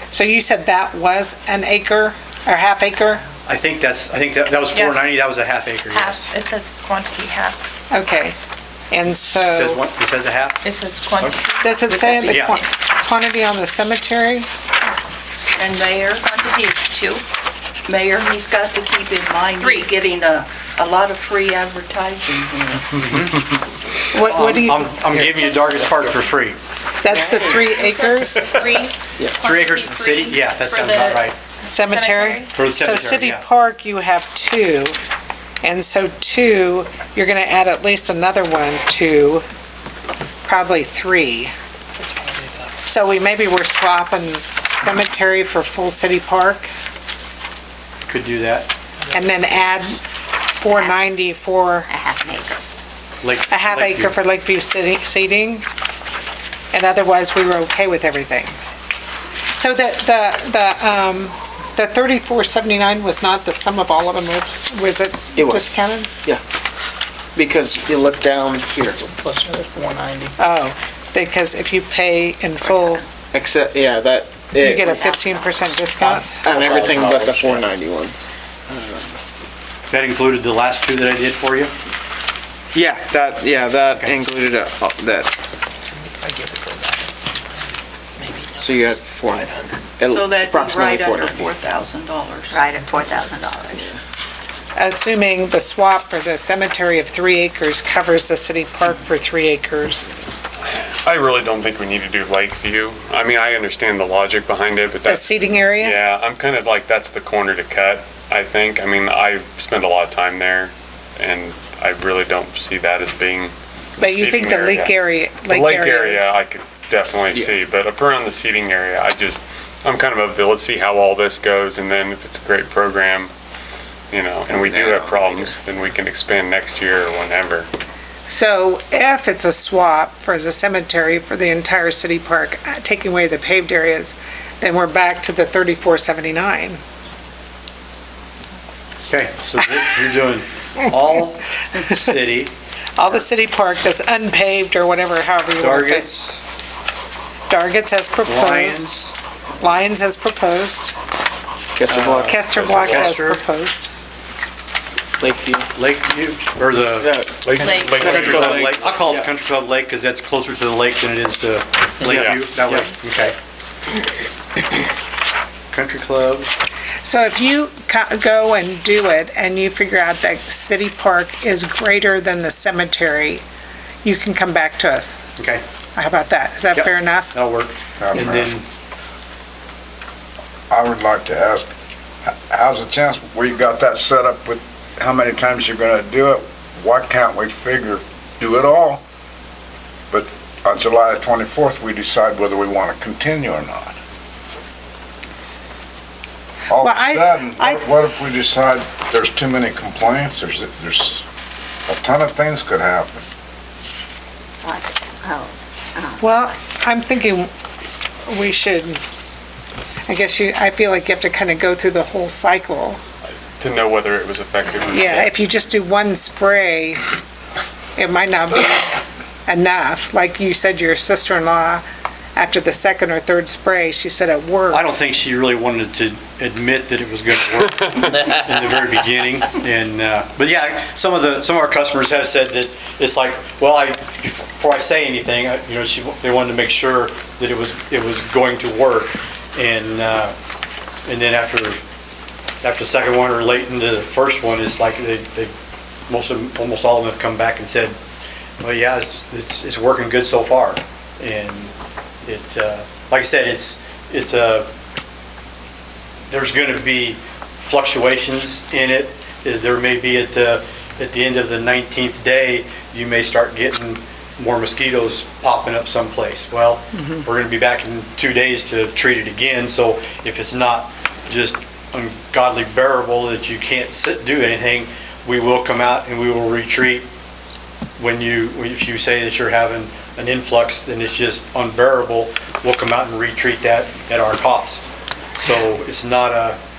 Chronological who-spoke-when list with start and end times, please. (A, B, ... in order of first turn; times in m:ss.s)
0:00.1-0:03.2 A
0:03.5-0:06.3 B
0:04.7-0:05.1 C
0:05.9-0:07.7 C
0:07.9-0:08.4 A
0:08.9-0:09.8 A
0:09.5-0:10.6 B
0:10.6-0:12.7 C
0:11.6-0:14.5 A
0:12.3-0:12.6 B
0:15.6-0:16.2 D
0:16.2-0:17.2 C
0:17.8-0:22.8 D
0:19.6-0:20.0 C
0:22.9-0:23.5 B
0:24.1-0:25.5 A
0:24.1-0:26.6 B
0:27.0-0:28.6 A
0:27.1-0:32.5 C
0:29.4-0:31.4 B
0:31.7-0:35.0 A
0:32.5-0:33.4 B
0:35.6-0:39.4 A
0:40.5-0:41.5 A
0:42.2-0:42.6 E
0:42.9-0:46.7 A
0:48.1-0:48.7 B
0:49.1-0:50.0 A
0:50.6-0:51.9 A
0:50.7-0:51.0 F
0:51.9-0:52.6 F
0:53.2-0:54.2 B
0:53.5-0:55.6 A
0:56.7-0:58.6 A
0:59.6-1:06.1 A
1:05.4-1:06.4 G
1:07.4-1:09.1 G
1:09.1-1:10.4 E
1:10.4-1:13.0 A
1:13.3-1:15.1 G
1:14.6-1:16.7 A
1:14.9-1:15.8 F
1:16.0-1:19.2 G
1:19.9-1:21.7 B
1:22.7-1:25.3 G
1:26.0-1:27.6 E
1:28.2-1:28.8 E
1:28.6-1:31.5 G
1:30.1-1:32.6 D
1:32.5-1:33.8 F
1:33.7-1:34.0 G
1:34.8-1:40.1 A
1:40.7-1:55.0 H
1:45.0-1:46.0 A
1:54.0-1:56.3 A
1:55.5-2:03.3 H
1:57.2-1:57.6 G
2:04.1-2:07.7 H
2:04.5-2:05.6 G
2:08.3-2:16.8 A
2:19.1-2:22.5 B
2:23.0-2:26.1 A
2:25.6-2:26.4 B
2:27.5-2:28.9 A
2:28.2-2:29.2 B
2:29.6-2:30.9 A
2:31.8-2:33.4 G
2:31.9-2:33.3 B
2:32.2-2:33.9 A
2:35.2-2:35.7 G
2:35.8-2:43.4 B
2:37.0-2:39.3 G
2:37.4-2:39.0 H
2:37.6-2:38.1 C
2:42.0-2:42.8 G
2:42.0-2:42.4 H
2:45.7-2:46.5 B
2:47.0-2:53.4 A
2:54.0-2:55.2 A
2:55.4-2:55.6 B
2:56.0-2:57.3 A
2:56.7-2:58.6 B
2:58.0-2:58.5 I
3:00.7-3:01.7 I
3:02.3-3:09.0 I
3:10.1-3:14.0 I
3:16.7-3:21.2 I
3:16.7-3:17.9 A
3:21.9-3:23.2 I
3:24.6-3:26.3 F
3:26.2-3:27.5 A
3:28.3-3:29.0 A
3:30.1-3:33.0 A
3:33.6-3:35.4 H
3:34.9-3:37.1 A
3:38.0-3:41.8 A
3:42.4-3:45.0 A
3:44.7-4:00.4 B
4:01.1-4:01.8 B
4:02.6-4:05.5 B
4:06.1-4:08.0 B
4:08.6-4:11.7 B
4:12.2-4:14.7 B
4:16.3-4:37.1 B
4:38.0-4:46.6 B